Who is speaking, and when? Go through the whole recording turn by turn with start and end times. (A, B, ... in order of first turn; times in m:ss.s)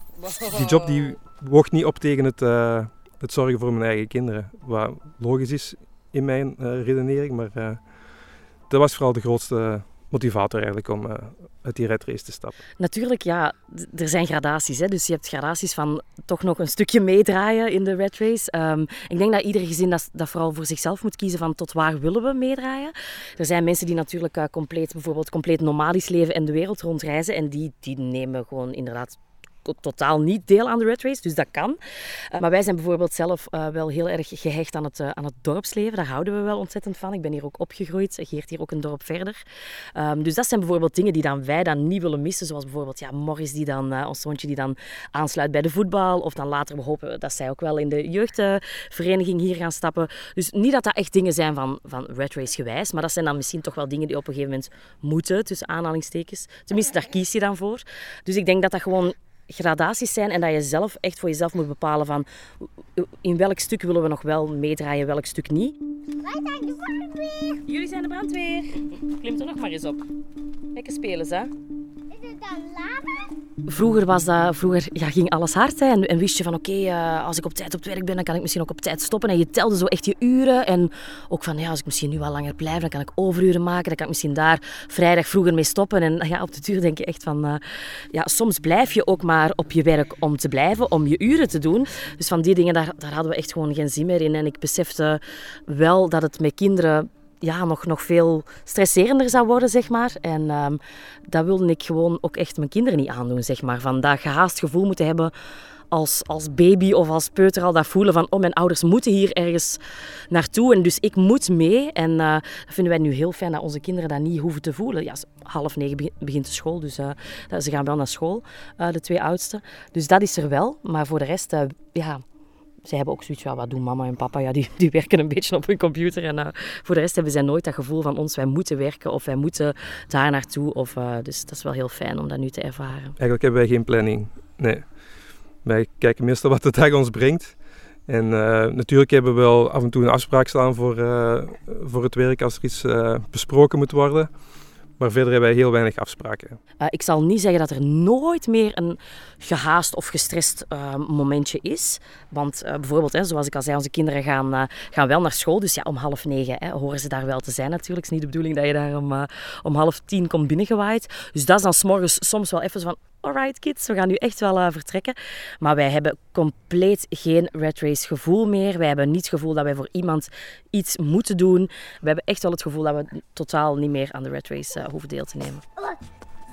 0:00.2-0:00.8 A
0:00.5-0:07.9 B
0:08.7-0:12.6 B
0:12.8-0:31.8 A
0:32.3-0:39.4 A
0:40.0-1:02.3 A
1:03.0-1:05.8 A
1:06.2-1:07.6 C
1:07.7-1:10.0 A
1:10.7-1:11.5 A
1:12.1-1:13.3 C
1:13.7-1:27.6 A
1:28.1-1:45.3 A
1:45.9-2:02.2 A
2:02.8-2:13.2 A
2:13.2-2:15.0 B
2:15.6-2:17.6 B
2:18.1-2:24.3 B
2:25.0-2:26.6 B
2:26.8-2:55.6 A